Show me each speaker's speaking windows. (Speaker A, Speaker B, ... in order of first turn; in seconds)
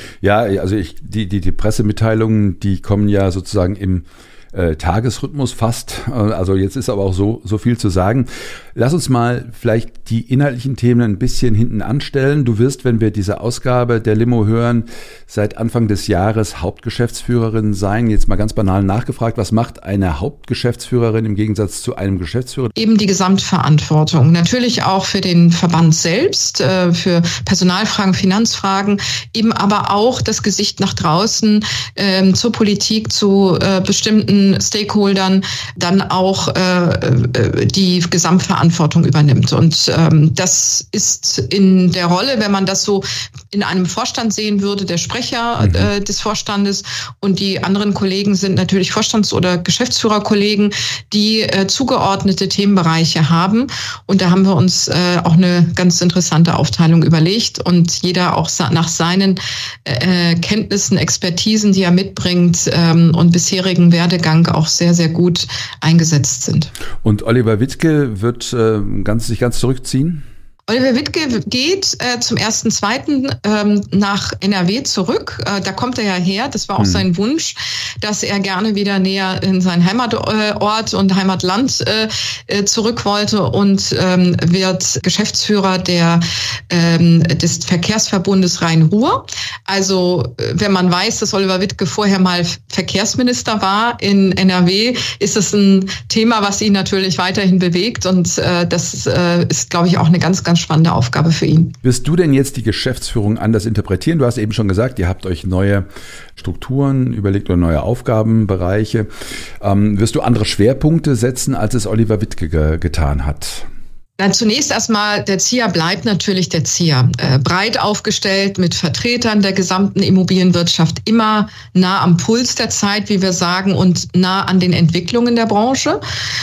Speaker A: 0.2-22.7, 45.6-45.9, 67.0-70.2, 76.8-77.0, 101.8-105.9, 106.4-109.1, 109.6-113.7
Speaker B: 22.8-66.7, 70.7-101.7, 114.2-126.0